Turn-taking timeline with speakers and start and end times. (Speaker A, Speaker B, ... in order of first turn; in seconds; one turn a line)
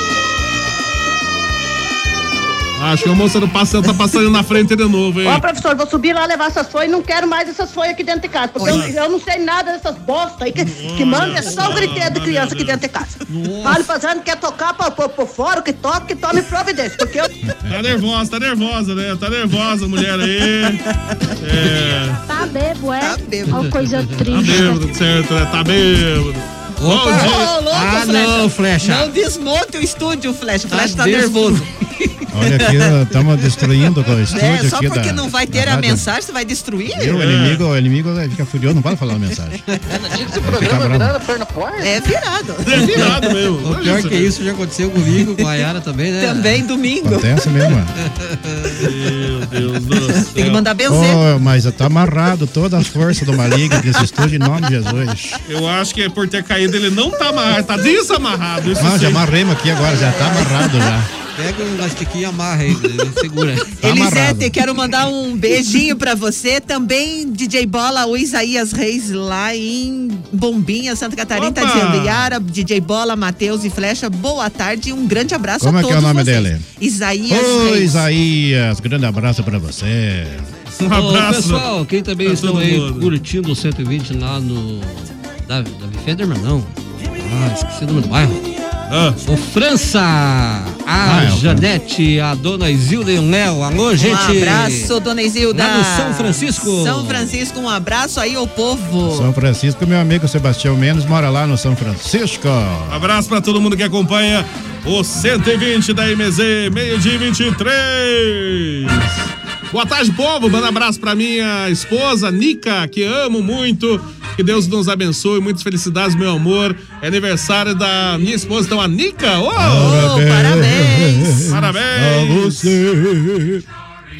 Speaker A: 2.8-5.4
Speaker B: 5.2-17.3
Speaker A: 8.6-8.9
Speaker A: 10.6-12.8
Speaker C: 13.3-13.9
Speaker A: 17.7-20.8
Speaker A: 21.4-22.2
Speaker D: 22.3-24.9
Speaker E: 23.0-23.7
Speaker C: 23.7-24.2
Speaker A: 24.3-27.5
Speaker C: 26.8-29.1
Speaker E: 27.1-31.7
Speaker C: 30.7-31.7
Speaker F: 32.3-36.1
Speaker E: 32.5-32.9
Speaker E: 34.3-37.2
Speaker F: 36.9-39.6
Speaker A: 37.1-37.6
Speaker G: 39.9-41.9
Speaker F: 40.3-41.2
Speaker E: 41.8-43.2
Speaker A: 42.6-44.3
Speaker C: 43.6-46.6
Speaker E: 46.2-47.3
Speaker F: 47.0-47.9
Speaker C: 48.1-48.8
Speaker A: 48.8-50.6
Speaker E: 50.2-51.2
Speaker F: 50.9-55.4
Speaker A: 55.5-59.3
Speaker F: 58.8-61.1
Speaker C: 61.4-63.8
Speaker F: 63.8-64.6
Speaker E: 63.8-78.1
Speaker A: 71.3-72.3
Speaker F: 75.6-76.6
Speaker F: 77.3-80.5
Speaker A: 80.8-81.7
Speaker C: 80.9-88.4
Speaker A: 82.2-83.1
Speaker A: 88.9-89.2
Speaker C: 89.2-94.9
Speaker F: 91.0-91.7
Speaker E: 94.0-99.3
Speaker C: 95.5-97.4
Speaker F: 99.0-103.1
Speaker A: 102.9-109.1
Speaker A: 109.7-120.1
Speaker F: 119.6-123.6
Speaker E: 119.7-121.5
Speaker A: 121.5-122.8